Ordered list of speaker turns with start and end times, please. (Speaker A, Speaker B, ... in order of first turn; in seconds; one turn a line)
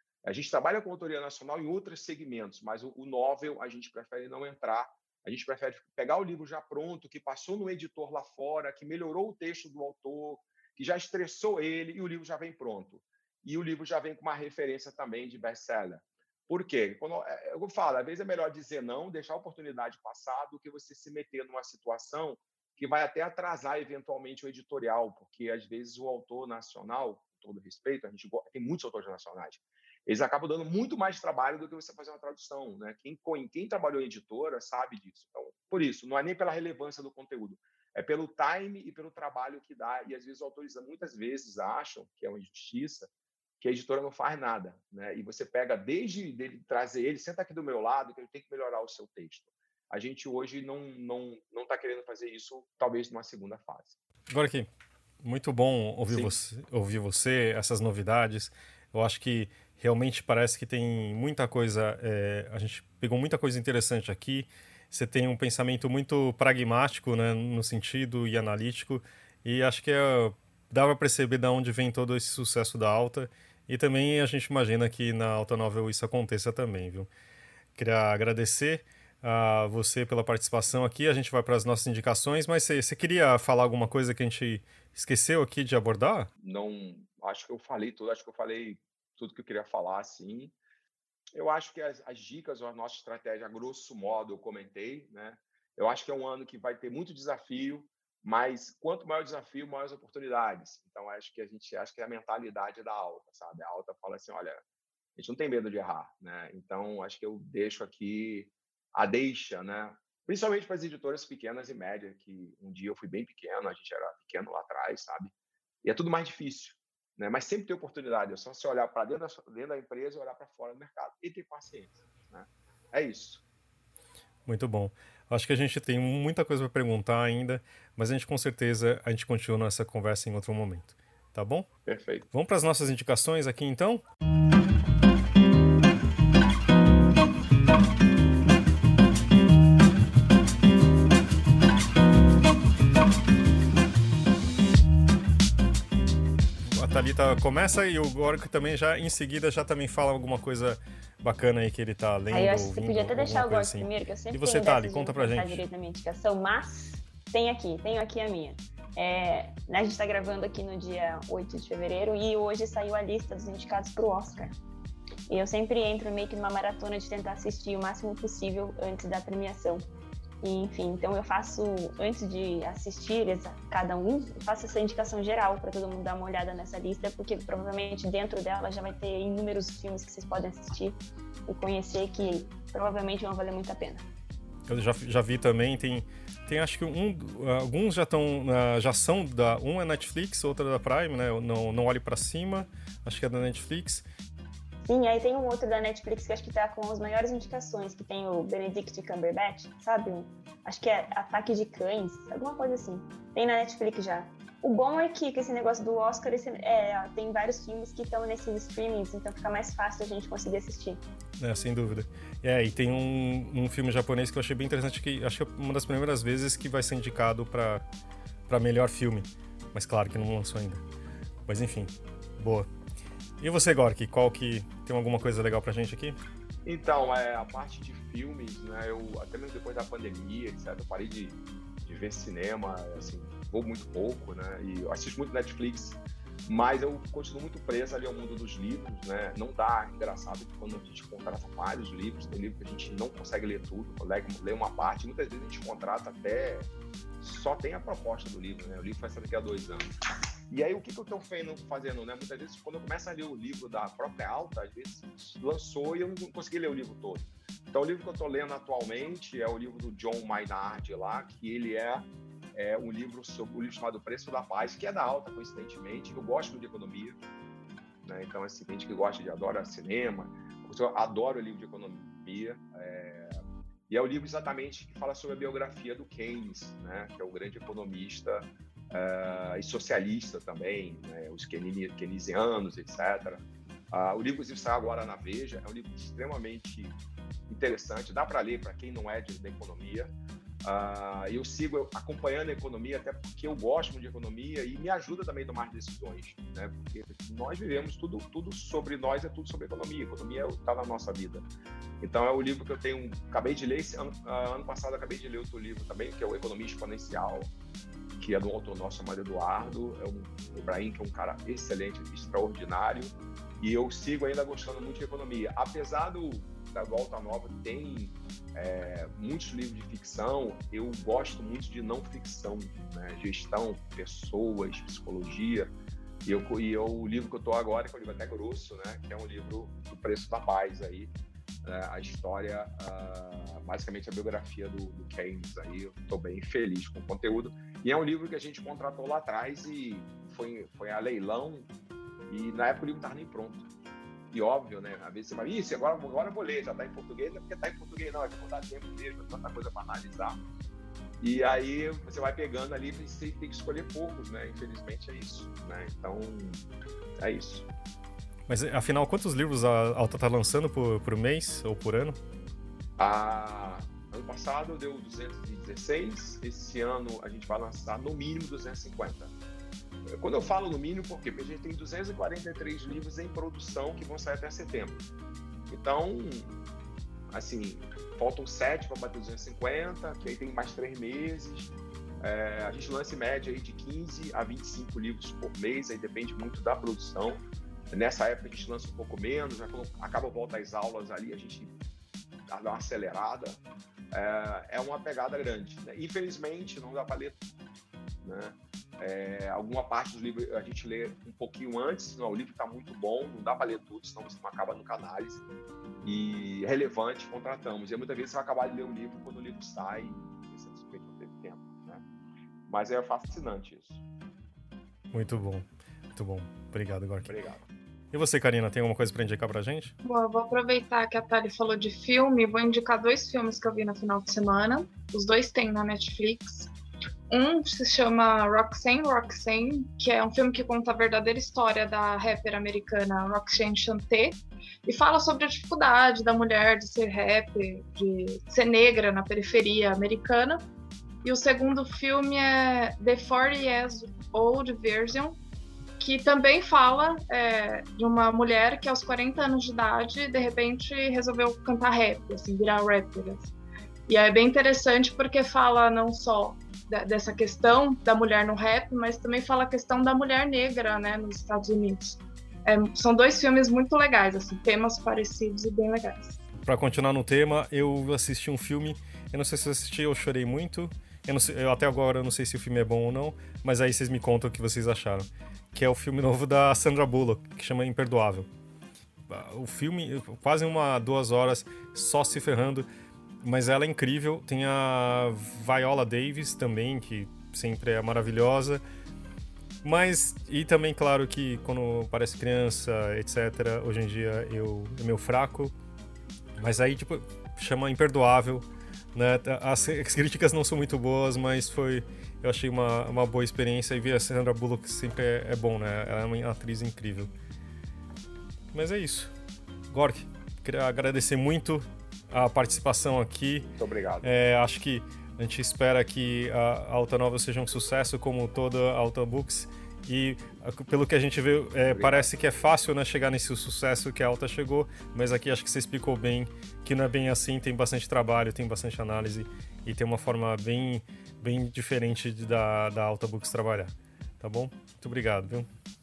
Speaker A: 0.2-54.0
Speaker B: 54.3-54.7
Speaker B: 55.2-77.1
Speaker A: 56.1-56.3
Speaker B: 77.8-86.3
Speaker A: 86.4-90.5
Speaker A: 91.3-104.6
Speaker A: 105.2-115.3
Speaker A: 115.8-123.4
Speaker B: 124.5-131.7
Speaker A: 131.8-132.2
Speaker B: 132.3-134.0
Speaker B: 146.7-155.6
Speaker C: 152.3-164.5
Speaker C: 165.3-169.8
Speaker C: 170.4-184.1
Speaker B: 184.7-194.0
Speaker C: 194.8-211.0
Speaker B: 211.4-217.8
Speaker B: 218.5-220.8
Speaker B: 221.5-222.7
Speaker B: 223.4-226.2
Speaker A: 226.7-249.9
Speaker A: 250.5-267.2
Speaker A: 268.0-290.1
Speaker A: 290.6-301.4
Speaker A: 302.0-307.5
Speaker A: 308.2-325.7
Speaker A: 326.2-331.1
Speaker A: 331.6-341.7
Speaker A: 342.3-343.7
Speaker A: 344.3-350.4
Speaker A: 351.2-357.7
Speaker B: 358.5-362.2
Speaker A: 363.0-369.3
Speaker A: 370.1-375.0
Speaker A: 375.7-376.5
Speaker A: 377.3-391.7
Speaker A: 392.5-393.6
Speaker A: 394.1-397.4
Speaker A: 398.2-405.4
Speaker A: 406.0-412.0
Speaker A: 412.7-414.0
Speaker B: 415.1-417.3
Speaker A: 417.2-417.6
Speaker B: 418.1-419.9
Speaker D: 420.0-426.7
Speaker D: 427.3-440.6
Speaker D: 441.2-445.4
Speaker D: 446.0-453.5
Speaker D: 454.1-466.4
Speaker B: 466.6-478.5
Speaker B: 479.3-482.9
Speaker B: 483.4-488.8
Speaker B: 489.8-495.7
Speaker B: 496.6-507.3
Speaker B: 508.7-509.3
Speaker B: 509.9-513.7
Speaker A: 513.7-514.3
Speaker B: 514.2-535.7
Speaker A: 521.9-522.3